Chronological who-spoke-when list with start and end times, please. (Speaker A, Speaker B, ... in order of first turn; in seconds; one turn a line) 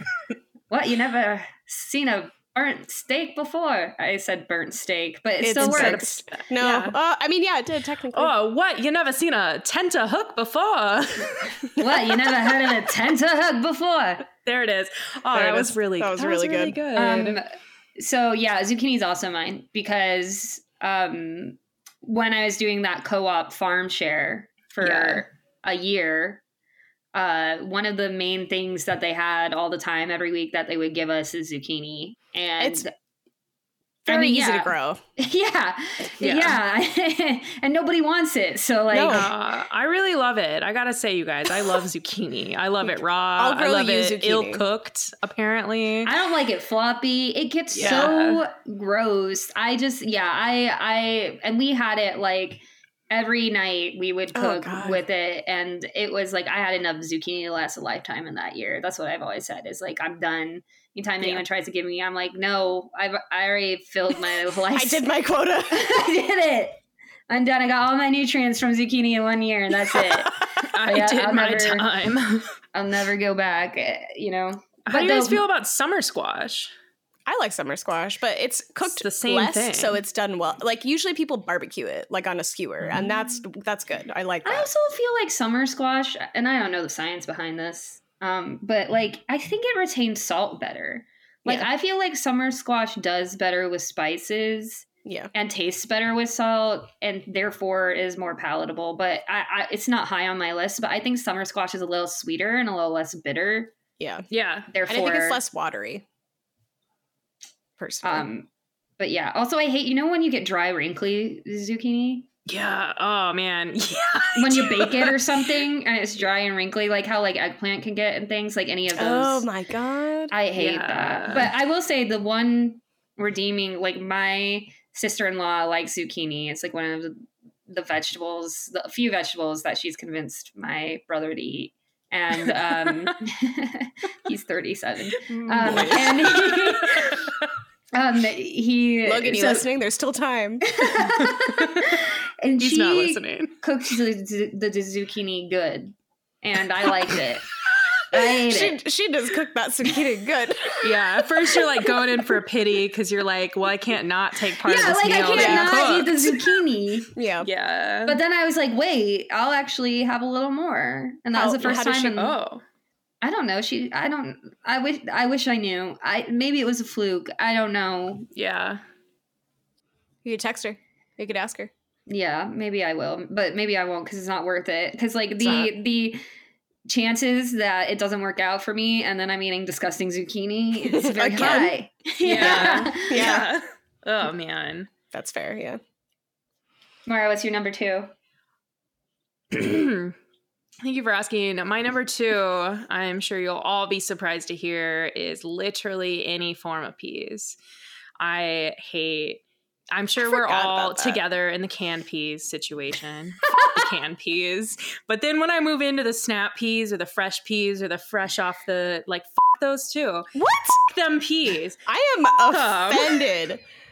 Speaker A: 0.7-6.2
Speaker B: 5.4-8.3
Speaker C: 5.6-6.9
Speaker C: 8.1-11.8
Speaker A: 11.8-14.3
Speaker C: 14.4-17.4
Speaker B: 15.3-16.8
Speaker A: 16.9-26.4
Speaker C: 24.8-25.2
Speaker A: 27.1-32.9
Speaker B: 32.6-32.8
Speaker B: 34.0-35.0
Speaker A: 34.0-39.3
Speaker C: 36.2-36.6
Speaker B: 38.9-39.3
Speaker C: 39.1-46.1
Speaker B: 43.4-44.6
Speaker A: 46.0-65.1
Speaker C: 47.7-48.4
Speaker B: 47.8-48.1
Speaker B: 54.3-55.0
Speaker B: 64.7-65.9
Speaker A: 65.7-71.9
Speaker C: 70.6-72.6
Speaker A: 72.7-75.4
Speaker C: 74.9-76.7
Speaker B: 77.3-84.7
Speaker C: 79.0-80.0
Speaker A: 84.4-103.7
Speaker B: 95.0-95.3
Speaker B: 104.0-104.2
Speaker C: 104.3-104.7
Speaker A: 104.7-105.4
Speaker B: 104.9-106.0
Speaker B: 107.8-108.3
Speaker A: 108.0-112.3
Speaker C: 112.5-115.2
Speaker A: 114.3-119.5
Speaker B: 119.0-120.3
Speaker A: 120.3-137.3
Speaker C: 120.5-121.5
Speaker C: 135.3-137.5
Speaker B: 135.6-136.1
Speaker A: 137.9-139.7
Speaker B: 139.0-140.6
Speaker A: 140.7-147.5
Speaker C: 141.0-141.9
Speaker C: 142.6-143.6
Speaker A: 148.1-148.8
Speaker B: 148.3-150.9
Speaker C: 150.8-156.5
Speaker A: 154.6-157.1
Speaker B: 155.3-155.8
Speaker B: 157.1-157.5
Speaker C: 157.4-158.2
Speaker A: 158.1-162.3
Speaker B: 161.3-162.3
Speaker C: 162.1-162.6
Speaker A: 163.2-168.3
Speaker C: 168.3-168.8
Speaker B: 170.2-171.7
Speaker A: 172.1-176.2
Speaker B: 175.4-175.7
Speaker A: 176.8-183.4
Speaker B: 180.9-181.7
Speaker C: 182.2-184.9
Speaker B: 182.4-183.5
Speaker B: 185.1-185.8
Speaker A: 187.1-188.1
Speaker C: 189.5-190.1
Speaker C: 190.8-197.6
Speaker C: 198.2-199.4
Speaker C: 199.9-210.3
Speaker B: 200.2-201.2
Speaker B: 210.3-210.9
Speaker C: 210.8-211.8
Speaker B: 211.8-213.6
Speaker C: 212.5-213.2